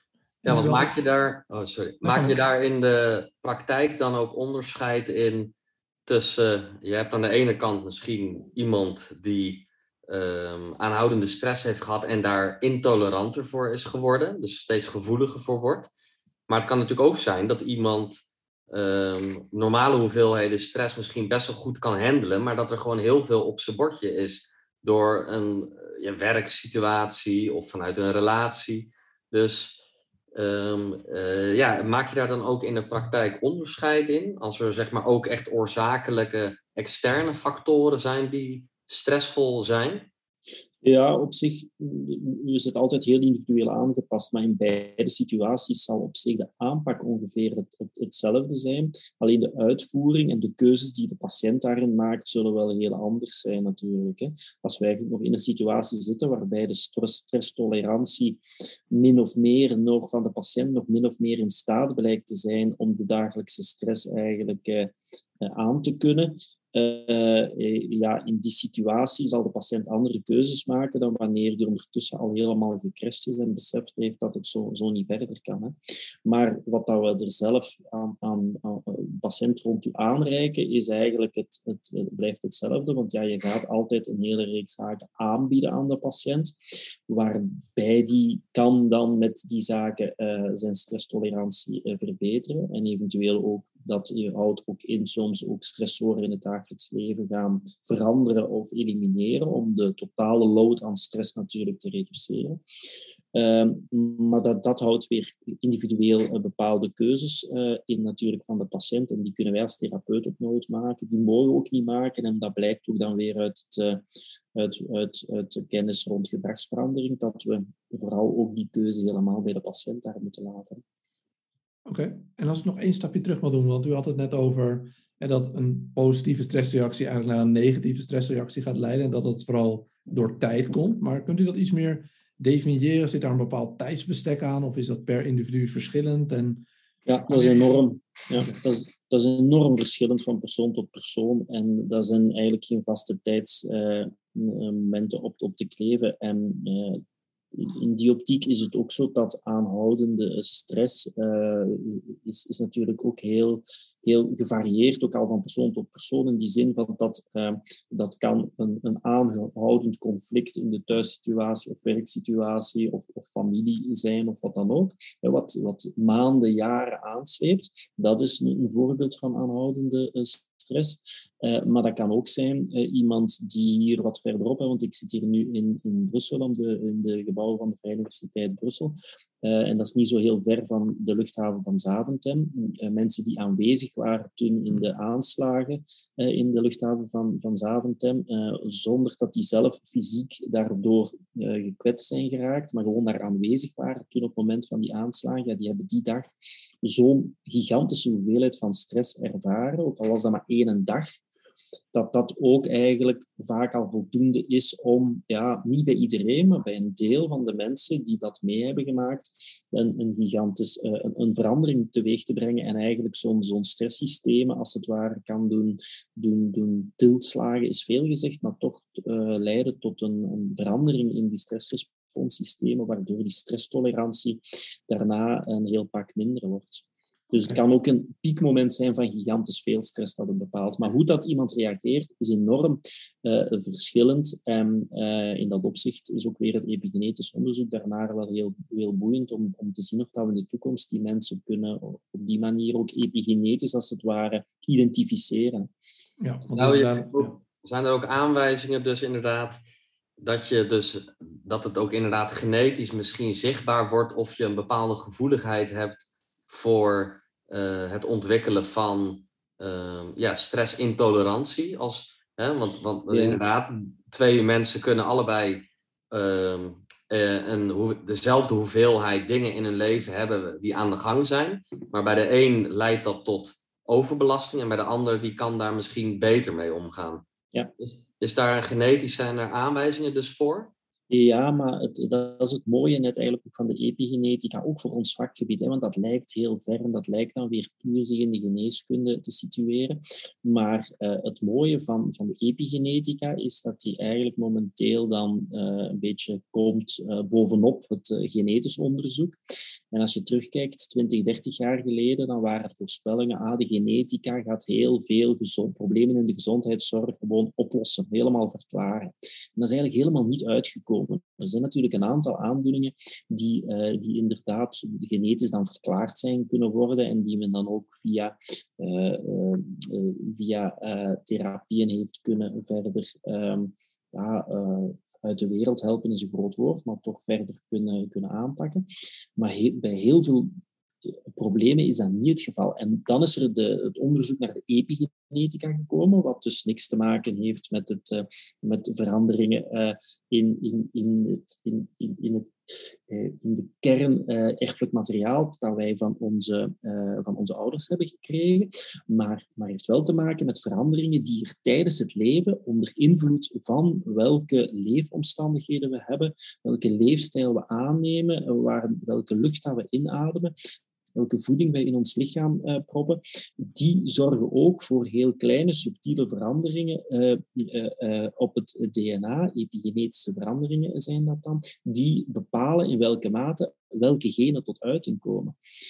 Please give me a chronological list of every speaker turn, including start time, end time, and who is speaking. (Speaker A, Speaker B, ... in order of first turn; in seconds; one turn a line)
Speaker A: 0.4-0.9
Speaker B: 0.4-5.5
Speaker A: 2.0-2.3
Speaker B: 6.1-15.9
Speaker B: 16.5-18.2
Speaker B: 18.7-29.8
Speaker B: 30.3-40.1
Speaker C: 40.8-58.4
Speaker C: 58.9-86.5
Speaker C: 87.1-102.6
Speaker C: 103.3-114.0
Speaker C: 114.5-120.8
Speaker A: 121.8-136.6
Speaker C: 137.1-147.0
Speaker A: 137.3-137.8
Speaker C: 147.5-196.3
Speaker C: 196.8-201.1
Speaker C: 201.9-245.7
Speaker A: 246.2-247.3
Speaker B: 246.5-249.6
Speaker B: 250.2-277.2
Speaker C: 263.1-263.4
Speaker B: 277.8-280.7
Speaker C: 281.1-299.4
Speaker C: 299.9-330.5
Speaker C: 331.0-360.5
Speaker C: 361.1-375.6